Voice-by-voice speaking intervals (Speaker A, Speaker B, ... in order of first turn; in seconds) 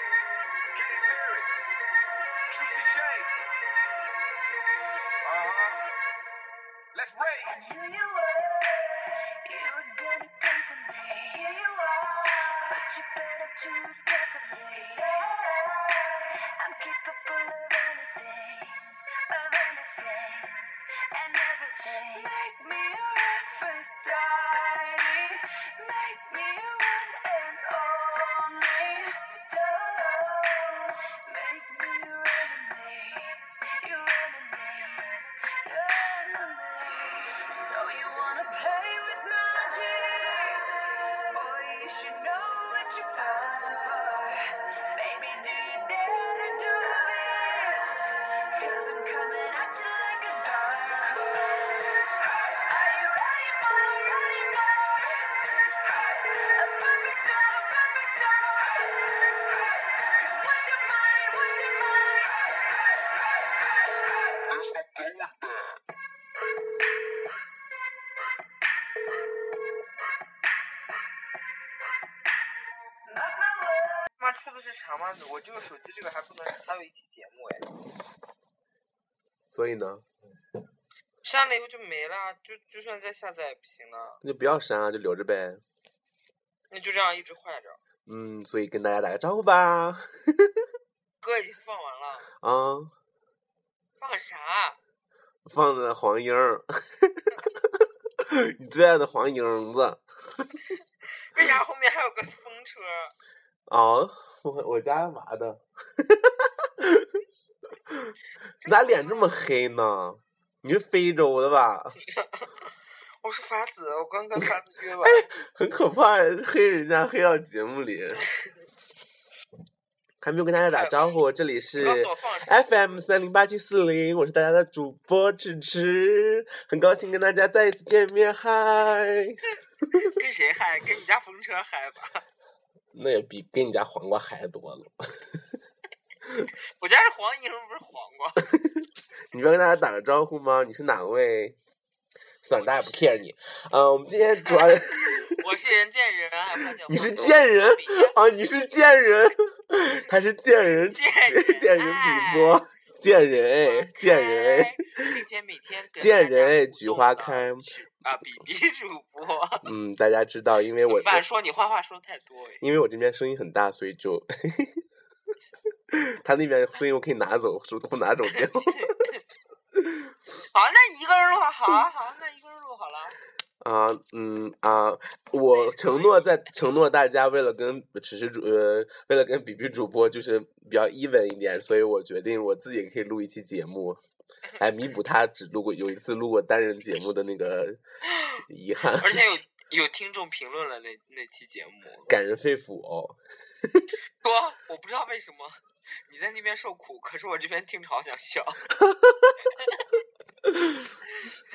Speaker A: 0.7-1.5, 2.5-3.3, 5.2-5.8, 6.9-7.6
Speaker B: 7.5-55.3, 56.0-59.1, 60.0-62.4, 73.0-74.1
Speaker C: 74.2-77.7, 81.2-84.2, 86.7-87.8, 91.2-92.3, 94.0-94.8, 101.3-103.1, 108.6-109.3, 113.2-115.3, 120.7-121.1, 121.8-123.0, 130.0-132.2, 136.8-138.5, 142.5-143.1, 144.4-148.1, 150.9-152.6, 153.6-159.7, 160.8-162.6, 168.3-169.2, 170.5-173.2, 175.5-176.3, 188.1-188.4, 189.0-192.1, 194.2-198.6
Speaker D: 79.5-80.0, 84.2-85.6, 88.1-90.6, 92.4-92.9, 95.4-100.5, 103.7-107.1, 107.9-108.1, 108.6-112.0, 115.0-118.2, 120.2-129.4, 132.9-135.4, 138.5-141.6, 142.4-145.3, 146.8-154.8, 156.0-157.6, 159.6-161.2, 162.6-164.8, 165.9-168.9, 169.8-170.1, 173.6-184.0, 184.6-187.8, 188.5-189.2, 192.1-193.9, 198.8-199.3, 200.4-200.9